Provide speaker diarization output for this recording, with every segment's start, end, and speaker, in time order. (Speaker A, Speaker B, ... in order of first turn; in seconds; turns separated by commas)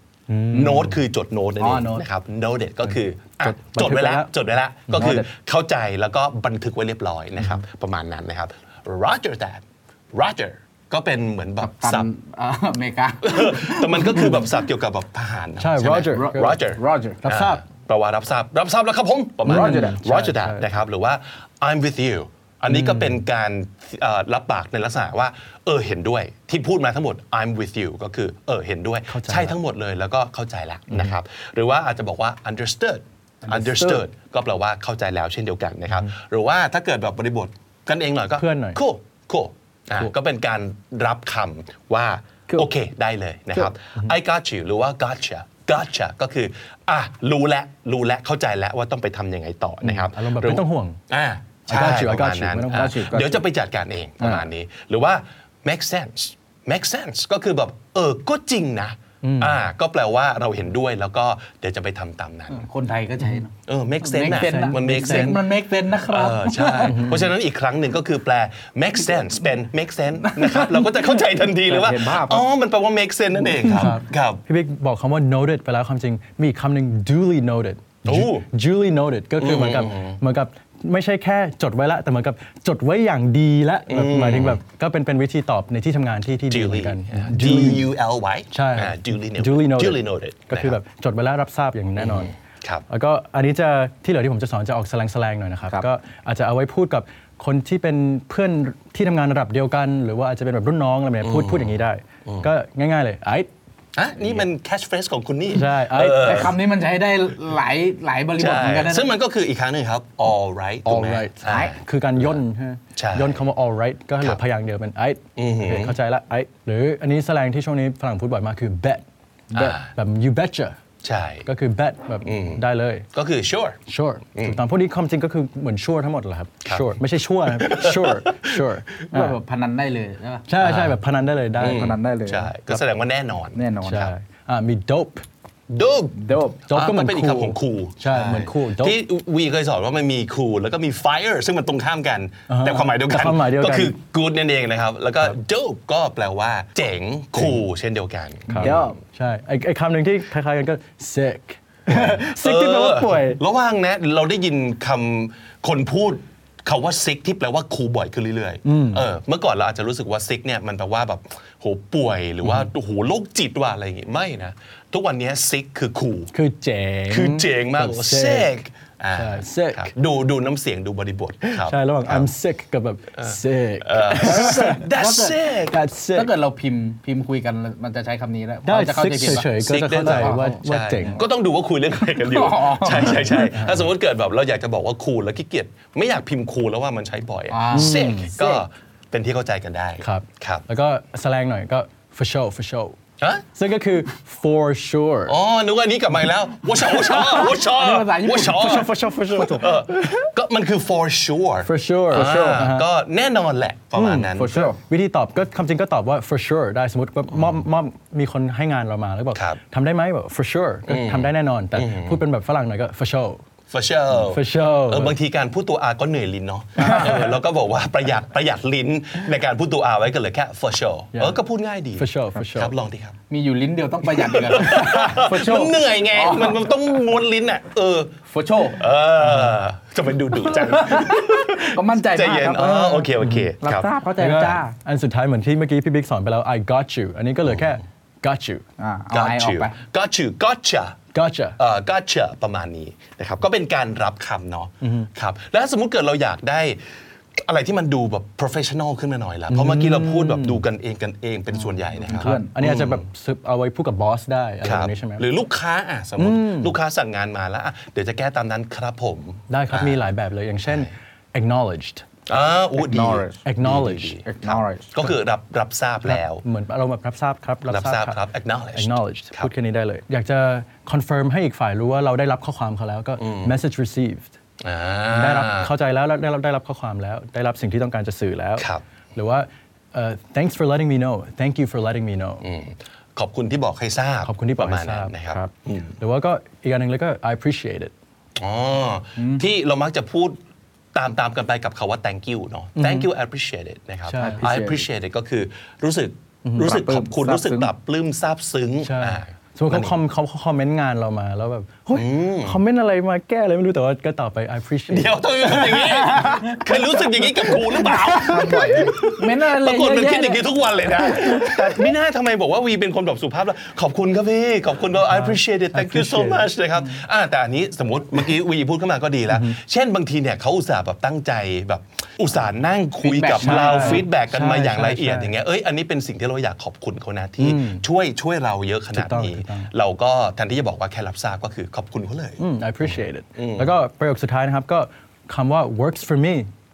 Speaker A: 0.3-0.9, Speaker B: 0.5-12.1, Speaker C: 0.5-0.9, Speaker C: 1.6-2.0, Speaker A: 2.9-4.3, Speaker A: 4.9-5.2, Speaker C: 5.0-5.3, Speaker C: 11.6-14.4, Speaker B: 13.2-62.6, Speaker A: 15.6-16.5, Speaker C: 16.1-17.2, Speaker A: 17.2-17.6, Speaker A: 19.4-20.6, Speaker C: 19.5-20.0, Speaker A: 22.7-23.2, Speaker A: 29.1-29.6, Speaker A: 30.9-31.1, Speaker A: 33.5-34.0, Speaker A: 38.4-38.8, Speaker A: 49.8-51.0, Speaker A: 51.7-53.0, Speaker C: 52.7-53.4, Speaker A: 59.2-59.6, Speaker C: 62.5-67.2, Speaker B: 63.7-65.4, Speaker A: 64.2-65.4, Speaker B: 66.1-74.4, Speaker A: 66.9-67.2, Speaker C: 70.3-72.5, Speaker A: 73.6-87.9, Speaker B: 78.0-78.5, Speaker B: 79.4-80.2, Speaker B: 83.9-84.6, Speaker B: 86.5-90.8, Speaker A: 88.5-92.3, Speaker B: 92.0-92.8, Speaker A: 92.9-103.5, Speaker B: 101.2-102.5, Speaker B: 103.9-106.5, Speaker A: 105.5-106.5, Speaker C: 106.0-109.1, Speaker B: 108.4-111.8, Speaker A: 110.8-120.8, Speaker C: 111.5-111.7, Speaker B: 113.0-113.4, Speaker B: 115.4-116.0, Speaker B: 119.5-119.9, Speaker B: 121.0-121.4, Speaker A: 121.4-123.1, Speaker B: 122.2-123.8, Speaker A: 123.9-129.4, Speaker B: 126.6-126.9, Speaker B: 127.5-128.6, Speaker C: 129.1-130.5, Speaker A: 130.5-132.0, Speaker B: 130.6-131.0, Speaker B: 131.6-133.6, Speaker C: 131.6-132.5, Speaker C: 133.6-134.1, Speaker A: 133.8-135.2, Speaker B: 135.7-148.9, Speaker C: 136.2-136.6, Speaker A: 136.7-139.0, Speaker A: 142.5-143.9, Speaker A: 148.5-153.4, Speaker C: 148.6-149.0, Speaker B: 151.9-166.3, Speaker A: 158.6-159.1, Speaker A: 166.3-168.6, Speaker B: 167.1-172.3, Speaker A: 169.2-169.9, Speaker A: 171.4-174.8, Speaker B: 173.2-175.8, Speaker C: 174.3-175.4, Speaker A: 175.7-176.3, Speaker C: 176.1-179.5, Speaker A: 178.6-181.2, Speaker B: 179.4-190.6, Speaker C: 180.0-180.6, Speaker C: 182.1-183.4, Speaker A: 183.3-183.8, Speaker C: 187.5-188.6, Speaker A: 187.7-188.3, Speaker A: 190.0-193.0, Speaker A: 193.6-195.4, Speaker B: 195.3-204.7, Speaker C: 196.9-198.9, Speaker A: 198.5-200.3, Speaker A: 201.6-202.9, Speaker C: 202.1-202.6, Speaker A: 203.9-213.4, Speaker C: 204.3-204.8, Speaker B: 209.3-209.6, Speaker B: 210.9-212.2, Speaker B: 213.7-223.2, Speaker A: 214.2-215.1, Speaker C: 216.8-217.2, Speaker A: 216.8-217.1, Speaker A: 221.9-222.7, Speaker C: 223.3-226.6, Speaker B: 224.1-228.2, Speaker C: 228.3-228.8, Speaker B: 228.8-233.9, Speaker C: 230.4-234.7, Speaker A: 233.2-233.5, Speaker A: 234.2-238.6, Speaker C: 238.8-239.8, Speaker B: 239.1-241.0, Speaker A: 241.1-241.6, Speaker B: 241.6-246.8, Speaker A: 244.8-245.1, Speaker B: 247.4-253.0, Speaker A: 249.5-250.6, Speaker C: 252.0-252.5, Speaker A: 252.1-255.2, Speaker B: 254.6-260.0, Speaker A: 256.2-256.8, Speaker A: 259.5-262.1, Speaker B: 262.3-266.4, Speaker C: 262.8-263.4, Speaker A: 263.4-264.2, Speaker C: 264.2-265.0, Speaker A: 266.1-268.2, Speaker B: 267.7-269.5, Speaker A: 268.8-274.3, Speaker B: 273.2-273.6, Speaker B: 274.6-275.7, Speaker A: 275.1-282.4, Speaker B: 282.4-285.9, Speaker A: 284.2-287.9, Speaker B: 288.4-290.4, Speaker C: 289.2-289.4, Speaker B: 290.9-300.0, Speaker A: 292.8-293.1, Speaker A: 294.1-294.9, Speaker A: 296.4-296.7, Speaker C: 296.6-297.7, Speaker A: 298.8-306.5, Speaker B: 301.9-302.6, Speaker B: 304.9-333.7, Speaker C: 306.5-306.9, Speaker C: 307.5-311.7, Speaker A: 315.1-316.5, Speaker A: 319.3-319.6, Speaker A: 323.1-325.3, Speaker C: 323.1-324.1, Speaker A: 327.4-327.8, Speaker A: 328.9-329.7, Speaker A: 332.4-336.5